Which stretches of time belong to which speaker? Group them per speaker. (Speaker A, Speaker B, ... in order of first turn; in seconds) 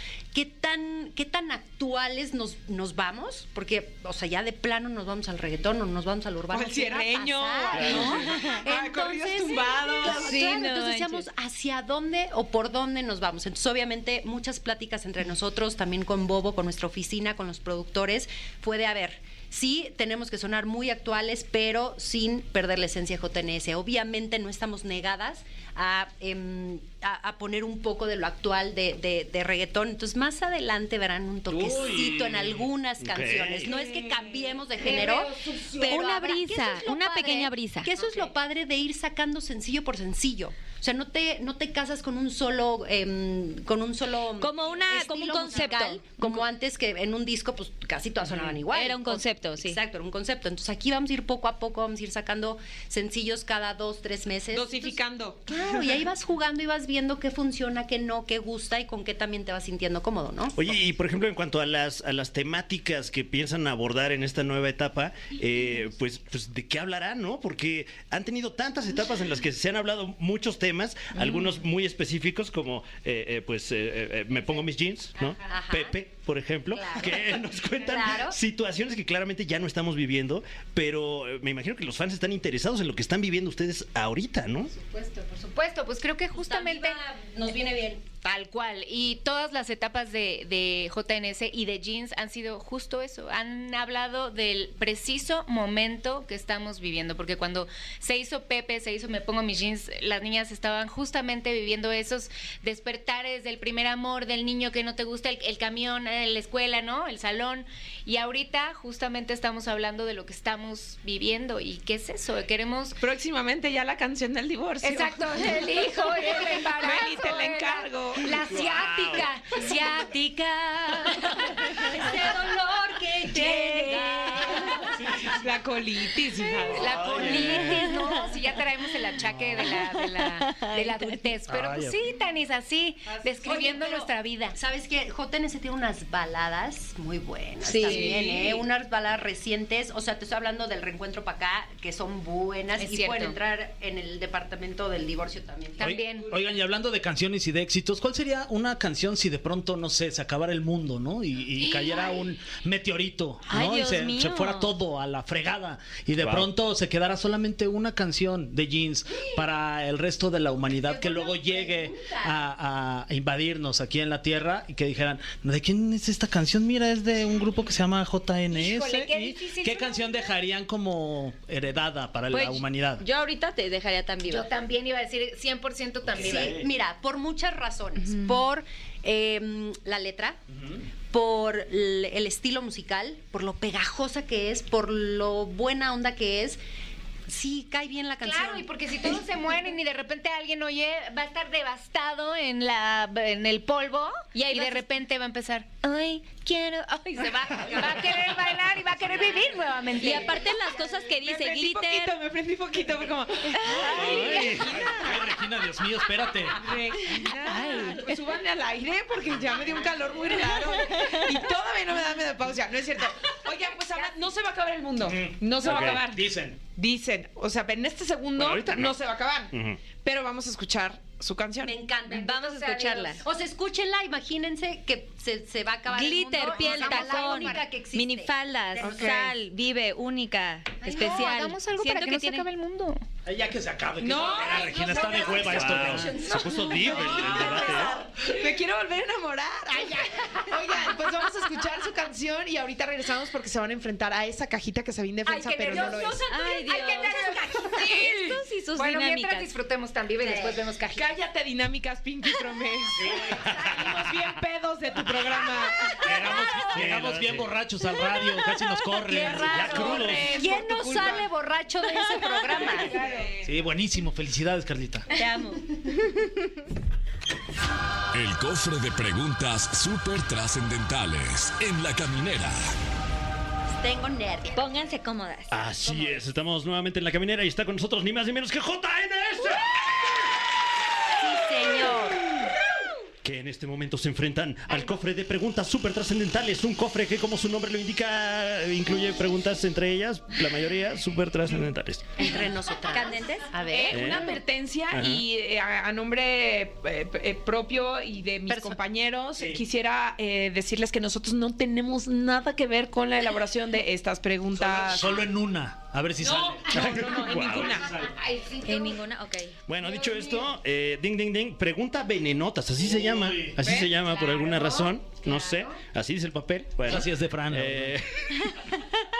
Speaker A: 0.3-60.8, 75.4-76.0, 76.7-78.4, 86.3-88.0, 121.7-125.0, 133.2-146.0, 160.7-162.3, 176.2-180.4, 181.1-186.6, 187.3-189.1, 197.5-198.2, 221.6-229.3, 235.0-238.0, 250.2-250.5, 259.1-263.0, 273.7-274.7, 281.1-282.2, 292.2-294.3, 298.5-298.8
Speaker B: 6.5-10.3, 54.5-55.6, 113.0-115.7, 116.7-118.4, 125.2-126.9, 201.1-205.2, 206.5-221.8, 234.0-235.8, 236.8-246.2, 247.8-248.1, 250.9-256.1, 259.1-261.3, 262.8-263.4, 293.7-305.2, 306.2-307.9, 313.6-313.9
Speaker C: 7.7-8.1, 33.0-33.7, 60.5-84.7, 118.4-119.3, 126.9-127.8, 156.2-156.5, 204.0-204.8, 215.6-216.0, 218.3-219.0, 219.5-219.8, 235.3-238.0, 253.4-254.0, 256.7-257.6, 259.5-260.3, 275.5-279.8, 283.2-292.2, 293.9-294.3, 294.9-295.2, 306.7-307.9, 309.7-318.8
Speaker D: 8.3-8.6, 10.0-11.2, 35.9-37.9, 44.4-46.4, 48.7-49.8, 123.3-124.7, 127.6-128.3, 129.6-131.3, 137.6-138.2, 153.5-154.7, 172.3-174.5, 194.3-194.9, 200.0-202.2, 203.6-204.3, 210.9-211.2, 222.1-223.2, 225.9-232.5, 246.3-249.5, 265.1-266.1, 274.5-275.6, 292.9-293.5, 308.6-309.5
Speaker E: 31.5-32.5, 127.0-127.8, 131.5-132.0, 145.8-173.0, 176.2-176.6, 203.9-206.6, 215.0-216.6, 233.2-236.4, 253.0-253.4, 255.9-260.1, 263.4-265.1, 304.5-308.1, 312.8-313.6, 316.8-318.0
Speaker F: 34.8-36.0, 38.0-38.3, 84.7-87.0, 88.2-113.0, 114.8-122.6, 123.2-125.0, 126.6-134.6, 137.8-138.3, 142.8-143.3, 145.8-146.3, 168.5-170.3, 174.2-176.6, 188.2-200.4, 203.7-204.4, 207.4-208.1, 222.5-223.1, 226.4-227.7, 230.8-233.0, 234.8-235.4, 239.8-240.2, 245.2-251.1, 262.9-263.3, 307.9-309.0, 309.8-310.5, 314.0-315.8
Speaker G: 268.1-272.7